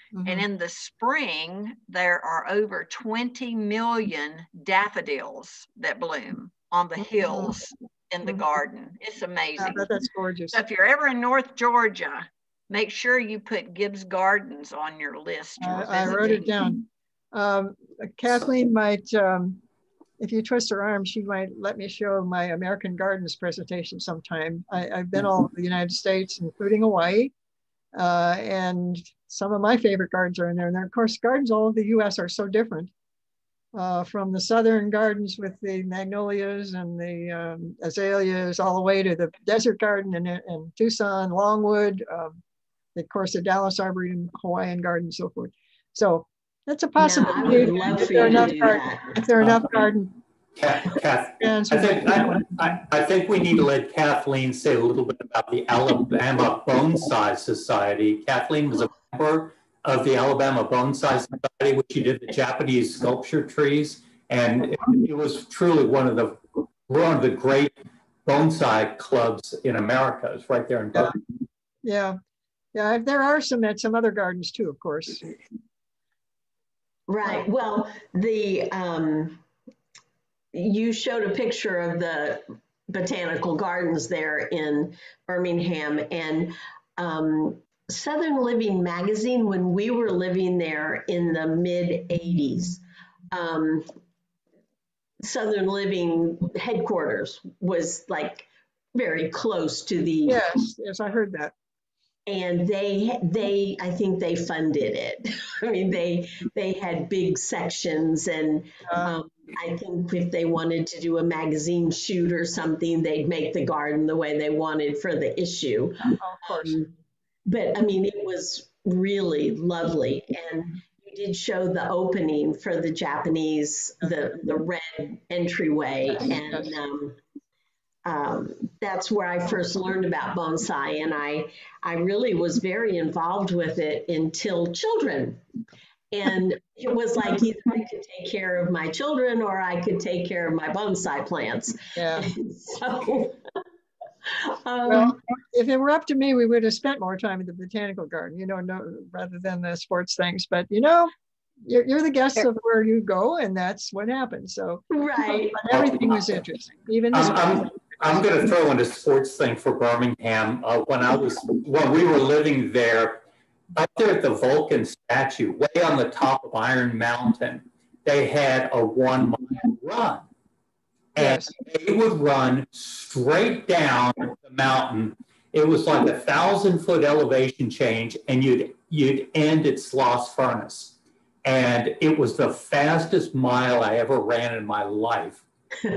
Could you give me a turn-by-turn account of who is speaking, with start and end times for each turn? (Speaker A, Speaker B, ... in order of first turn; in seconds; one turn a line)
Speaker A: 0.1-0.4
Speaker B: 0.2-9.9
Speaker A: 7.0-7.6
Speaker A: 9.6-10.6
Speaker B: 10.5-16.5
Speaker A: 15.6-19.6
Speaker A: 20.2-27.3
Speaker A: 27.9-32.9
Speaker A: 33.7-42.4
Speaker A: 43.0-50.2
Speaker C: 47.0-49.2
Speaker D: 50.6-67.7
Speaker A: 51.4-52.7
Speaker D: 68.3-71.2
Speaker A: 71.8-72.2
Speaker A: 72.7-75.3
Speaker C: 77.1-79.4
Speaker C: 80.5-93.9
Speaker C: 95.2-100.4
Speaker A: 100.3-101.5
Speaker C: 102.3-116.9
Speaker A: 108.9-109.1
Speaker A: 116.2-116.8
Speaker C: 117.5-127.2
Speaker C: 128.1-135.4
Speaker C: 136.1-143.4
Speaker A: 141.9-142.3
Speaker C: 144.3-145.2
Speaker A: 144.9-151.1
Speaker A: 151.7-157.8
Speaker C: 154.9-155.6
Speaker D: 155.7-156.3
Speaker D: 157.1-163.2
Speaker D: 163.8-170.3
Speaker D: 171.2-185.4
Speaker A: 171.2-171.5